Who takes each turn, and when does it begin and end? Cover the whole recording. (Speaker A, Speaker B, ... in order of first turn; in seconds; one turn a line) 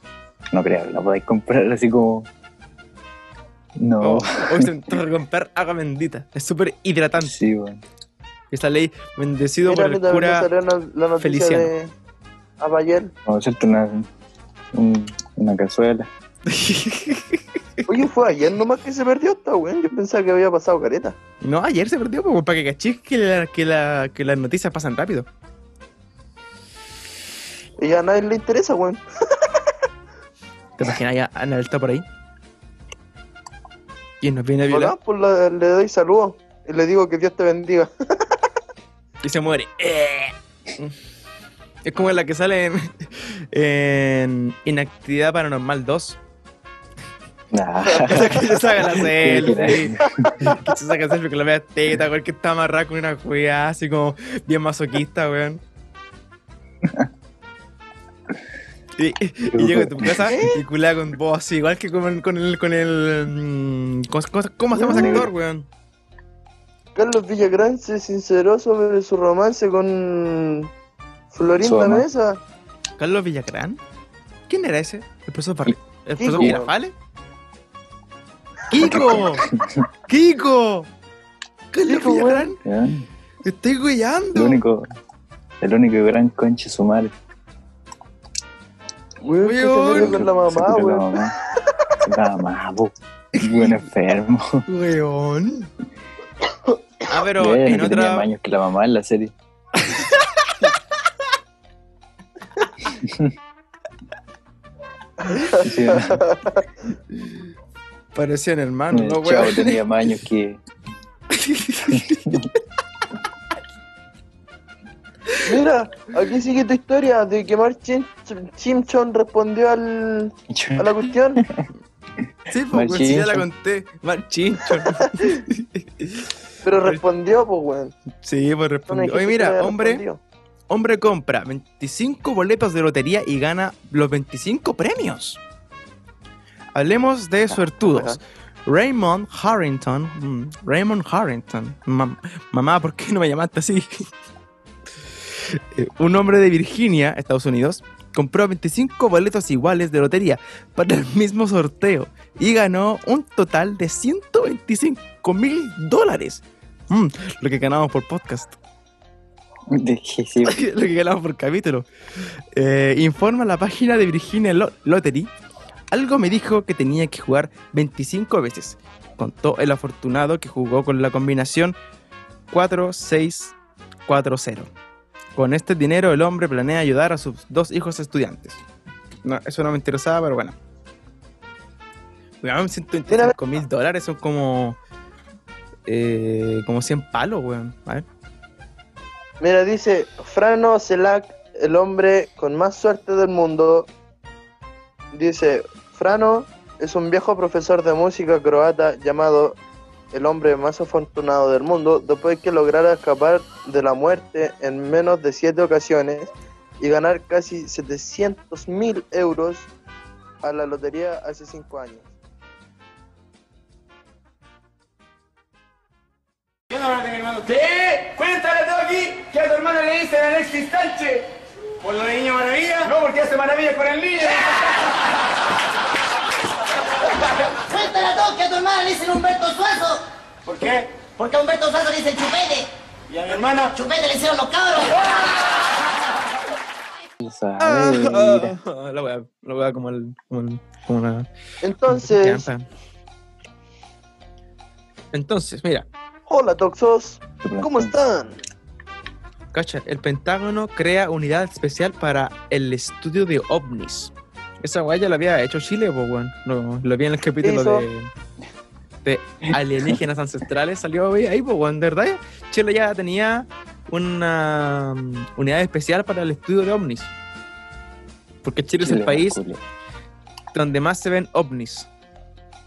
Speaker A: 0.5-2.3
Speaker A: 3.8-4.8
Speaker B: 4.0-7.3
Speaker A: 7.2-7.8
Speaker B: 8.5-10.5
Speaker C: 9.6-11.9
Speaker B: 11.2-11.7
Speaker C: 12.6-13.1
Speaker A: 13.3-14.1
Speaker A: 14.7-16.1
Speaker B: 16.5-17.4
Speaker C: 17.9-21.2
Speaker B: 21.4-25.3
Speaker C: 27.8-29.0
Speaker B: 30.8-32.0
Speaker B: 34.2-34.9
Speaker C: 34.7-38.4
Speaker B: 39.2-41.0
Speaker B: 41.9-46.2
Speaker A: 47.5-50.6
Speaker B: 48.1-55.6
Speaker B: 59.0-65.7
Speaker A: 59.5-60.4
Speaker C: 60.3-60.6
Speaker C: 64.7-65.2
Speaker A: 64.8-65.3
Speaker C: 67.0-70.7
Speaker C: 71.3-72.4
Speaker A: 71.6-72.0
Speaker B: 73.0-73.8
Speaker B: 74.5-76.9
Speaker C: 76.2-76.7
Speaker B: 78.7-79.5
Speaker A: 78.8-79.9
Speaker B: 80.1-80.9
Speaker B: 81.7-82.6
Speaker C: 81.9-82.5
Speaker A: 82.6-83.1
Speaker B: 83.4-84.6
Speaker A: 84.3-84.9
Speaker A: 85.6-87.1
Speaker C: 89.2-91.2
Speaker B: 89.4-90.2
Speaker A: 89.9-91.3
Speaker A: 92.0-94.7
Speaker B: 93.4-93.8
Speaker B: 94.7-95.7
Speaker B: 97.1-98.3
Speaker A: 97.4-99.3
Speaker B: 99.8-100.5
Speaker A: 102.9-103.3
Speaker C: 105.2-106.6
Speaker A: 105.5-106.2
Speaker B: 108.1-109.8
Speaker A: 108.9-110.6
Speaker B: 111.3-112.5
Speaker A: 111.9-112.5
Speaker C: 115.4-121.4
Speaker A: 120.5-121.7
Speaker A: 122.2-123.5
Speaker B: 122.5-126.3
Speaker C: 126.6-128.0
Speaker B: 128.2-130.0
Speaker C: 128.9-130.2
Speaker B: 130.7-135.4
Speaker B: 136.7-144.1
Speaker C: 137.5-138.2
Speaker B: 145.3-158.6
Speaker A: 159.7-160.6
Speaker B: 160.4-161.9
Speaker B: 162.6-165.3
Speaker B: 165.9-171.8
Speaker B: 172.5-173.6
Speaker B: 174.1-174.7
Speaker B: 175.4-178.6
Speaker B: 179.2-180.6
Speaker B: 182.4-184.8
Speaker C: 183.1-183.3
Speaker B: 185.9-188.1
Speaker C: 189.4-193.9
Speaker C: 195.1-199.6
Speaker C: 200.1-209.7
Speaker C: 210.4-212.1
Speaker D: 216.7-224.9
Speaker E: 227.6-230.0
Speaker D: 230.4-231.1
Speaker E: 231.2-232.7
Speaker D: 233.1-233.7
Speaker E: 233.6-235.1
Speaker A: 237.2-238.6
Speaker B: 237.6-241.3
Speaker C: 241.6-242.5
Speaker B: 241.9-242.6
Speaker B: 245.1-245.9
Speaker C: 246.3-248.4
Speaker A: 247.4-247.9
Speaker B: 249.5-258.1
Speaker C: 257.4-257.9
Speaker B: 259.1-267.1
Speaker B: 268.4-269.4
Speaker A: 268.8-269.6
Speaker B: 270.5-271.9